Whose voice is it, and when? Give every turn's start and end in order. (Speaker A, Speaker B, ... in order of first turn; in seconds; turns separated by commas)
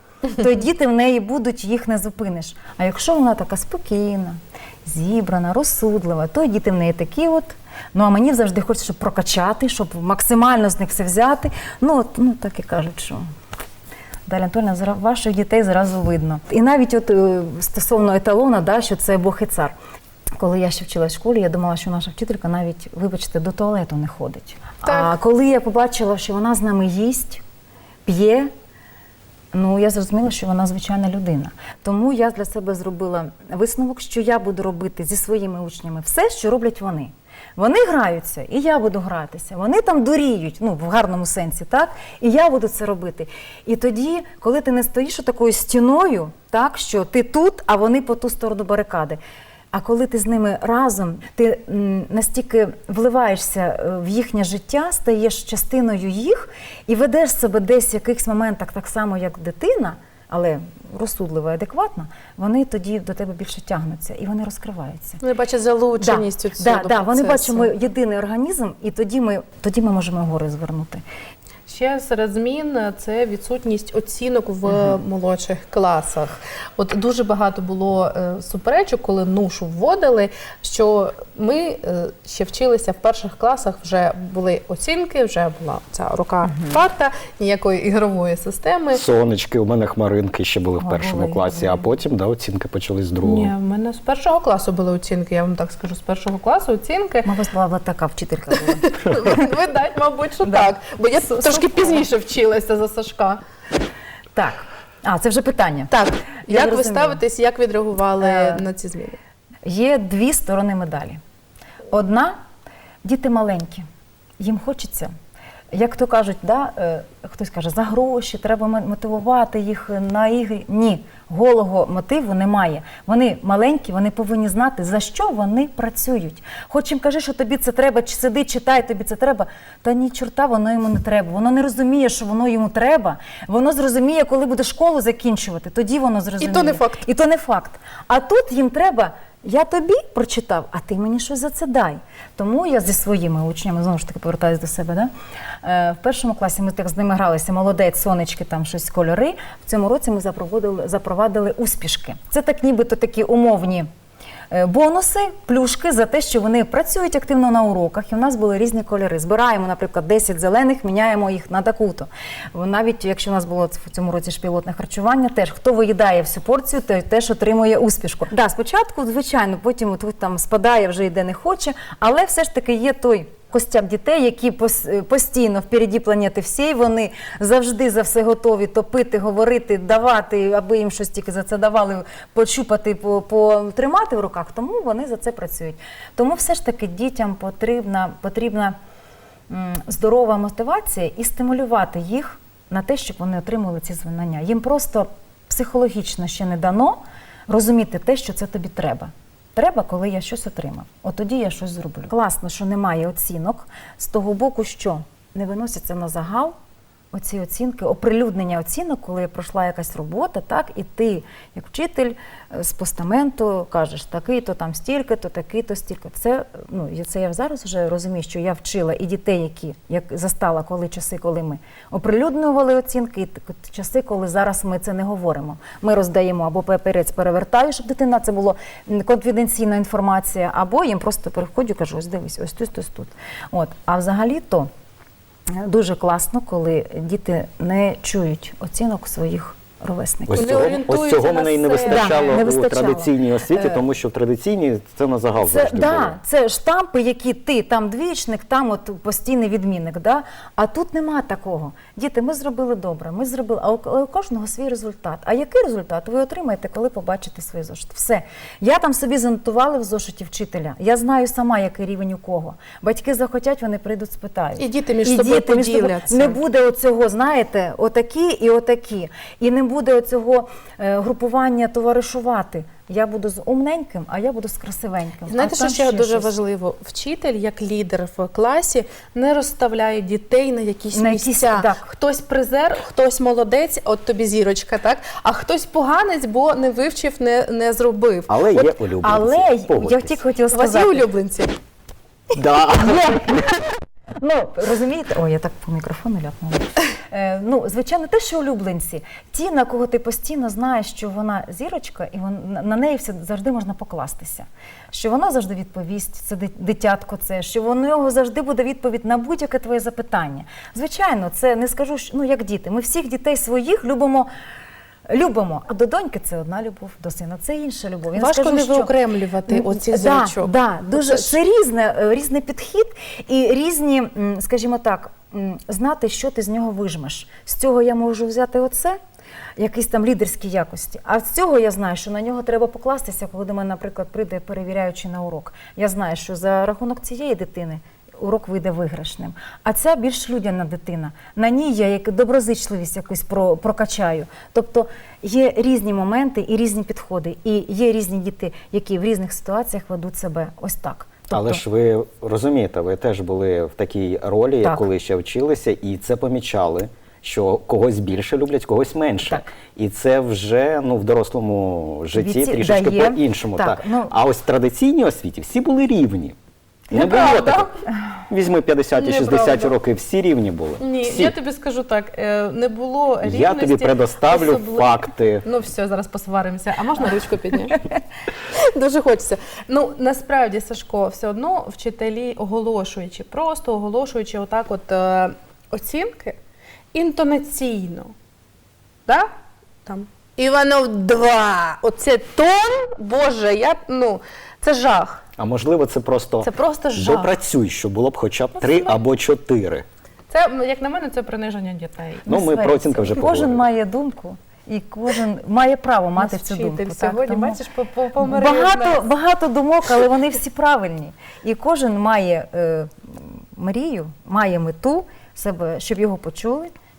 Speaker A: 0.3-13.2, Speaker A: 14.3-19.8, Speaker A: 20.4-27.4, Speaker B: 24.9-25.1, Speaker A: 28.1-28.5, Speaker A: 29.5-49.2, Speaker A: 49.7-65.2, Speaker B: 65.2-67.7, Speaker A: 66.0-71.0, Speaker B: 71.7-89.0, Speaker A: 74.7-75.0, Speaker A: 86.4-86.8, Speaker C: 88.9-93.5, Speaker A: 90.8-91.8, Speaker B: 93.2-97.3, Speaker A: 97.2-99.5, Speaker B: 98.9-103.4, Speaker A: 100.4-100.7, Speaker A: 101.2-102.1, Speaker A: 104.3-105.9, Speaker B: 105.9-109.2, Speaker A: 106.5-107.2, Speaker A: 108.2-108.6, Speaker A: 109.7-111.2, Speaker A: 111.9-112.4, Speaker A: 113.0-113.9, Speaker A: 114.4-115.1, Speaker A: 115.7-145.1, Speaker B: 136.4-137.0, Speaker A: 145.6-153.9, Speaker A: 154.5-188.8, Speaker A: 189.5-206.6, Speaker A: 207.1-234.7, Speaker A: 235.5-240.6, Speaker C: 240.3-246.2, Speaker B: 240.3-242.4, Speaker A: 241.9-243.8, Speaker A: 245.4-276.3, Speaker B: 264.6-266.4, Speaker B: 275.3-288.7, Speaker A: 280.9-281.9, Speaker C: 288.3-290.2, Speaker A: 289.0-291.1, Speaker B: 290.5-291.5, Speaker C: 292.4-293.4, Speaker A: 292.7-314.3, Speaker A: 315.1-318.9, Speaker B: 318.1-321.4, Speaker A: 319.5-329.0, Speaker A: 329.6-351.6, Speaker C: 351.3-366.4, Speaker A: 362.1-364.1, Speaker C: 366.9-367.7, Speaker B: 366.9-367.8, Speaker C: 368.3-371.4, Speaker B: 368.9-369.7, Speaker B: 370.8-386.4, Speaker C: 373.2-375.4, Speaker B: 386.9-388.1, Speaker B: 389.9-395.2, Speaker C: 395.4-399.9, Speaker B: 396.4-397.3, Speaker B: 398.6-399.0, Speaker B: 400.3-403.2, Speaker C: 402.2-403.6, Speaker A: 403.1-407.6, Speaker B: 406.2-409.0, Speaker A: 408.2-416.7